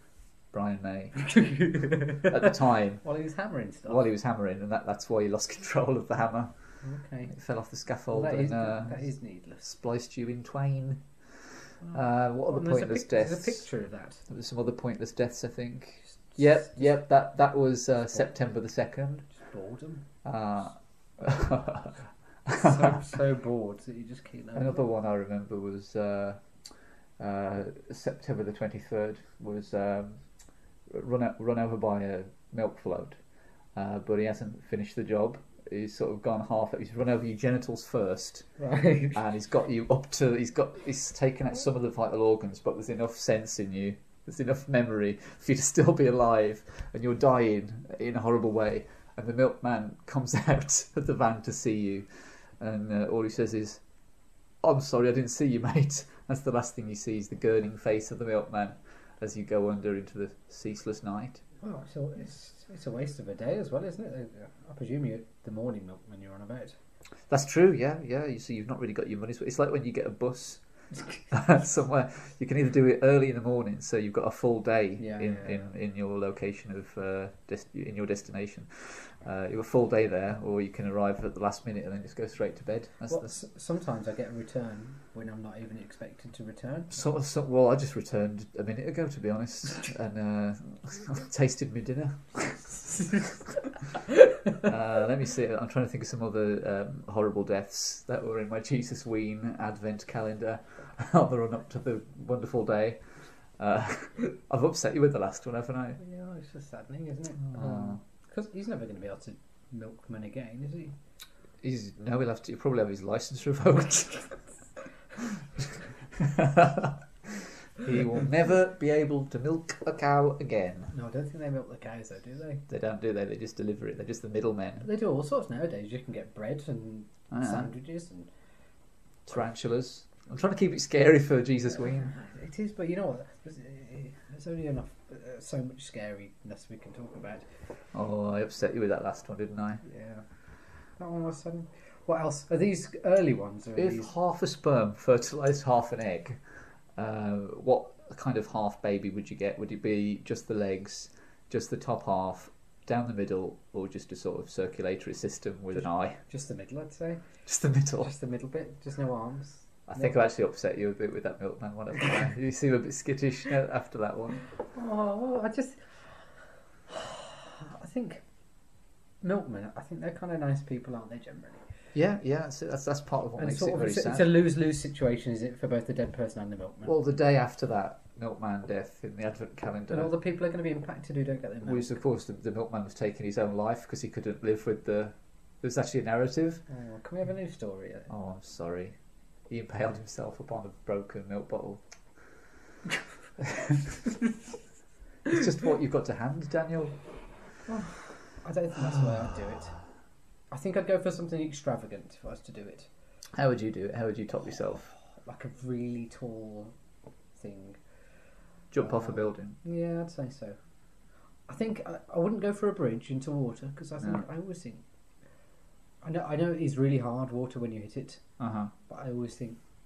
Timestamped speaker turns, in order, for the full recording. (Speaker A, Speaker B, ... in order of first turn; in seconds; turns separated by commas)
Speaker A: 0.5-3.0, Speaker B: 1.3-2.5, Speaker B: 3.0-4.0, Speaker A: 3.9-6.5, Speaker B: 6.8-7.3, Speaker A: 7.3-9.0, Speaker B: 8.1-9.7, Speaker A: 9.6-11.0, Speaker B: 11.8-14.2, Speaker A: 11.9-13.7, Speaker A: 14.3-19.3, Speaker B: 16.3-16.9, Speaker B: 19.3-20.1, Speaker A: 20.2-23.1, Speaker B: 22.6-24.8, Speaker A: 24.6-26.4, Speaker A: 27.2-30.2, Speaker A: 30.9-33.2, Speaker A: 33.8-38.5, Speaker B: 38.6-39.2, Speaker A: 39.1-52.1, Speaker A: 52.6-53.8, Speaker A: 54.6-61.4, Speaker B: 61.6-66.8, Speaker A: 67.3-70.6, Speaker A: 71.3-83.4, Speaker B: 75.0-75.6, Speaker B: 83.1-87.0, Speaker A: 86.9-103.0, Speaker A: 103.6-106.0, Speaker B: 106.0-111.0, Speaker A: 107.4-108.0, Speaker A: 111.6-114.4, Speaker A: 116.2-120.9, Speaker B: 120.9-122.6, Speaker A: 122.7-124.9, Speaker B: 124.8-128.3, Speaker A: 127.3-127.7, Speaker A: 129.3-132.2, Speaker B: 132.1-137.5, Speaker A: 137.9-139.8, Speaker B: 139.8-140.2, Speaker B: 141.0-144.1, Speaker A: 143.8-146.4, Speaker A: 147.0-156.2, Speaker B: 155.8-157.2, Speaker A: 157.5-158.1, Speaker B: 158.0-160.2, Speaker A: 159.9-164.5, Speaker B: 164.7-166.1, Speaker B: 166.9-168.2, Speaker B: 169.2-171.6, Speaker A: 171.9-174.4, Speaker B: 173.4-176.9, Speaker A: 176.9-180.1, Speaker B: 179.9-182.0, Speaker A: 181.7-186.6, Speaker B: 186.7-188.1, Speaker A: 188.1-188.9, Speaker A: 189.5-191.8, Speaker A: 193.4-194.1, Speaker A: 195.3-196.9, Speaker B: 197.7-199.8, Speaker B: 200.5-202.9, Speaker A: 203.3-204.9, Speaker B: 205.2-206.7, Speaker B: 207.3-207.8, Speaker A: 208.7-209.6, Speaker B: 208.8-210.6, Speaker B: 211.5-214.8, Speaker A: 214.0-214.2, Speaker B: 216.0-218.2, Speaker A: 218.4-218.7, Speaker B: 218.9-219.6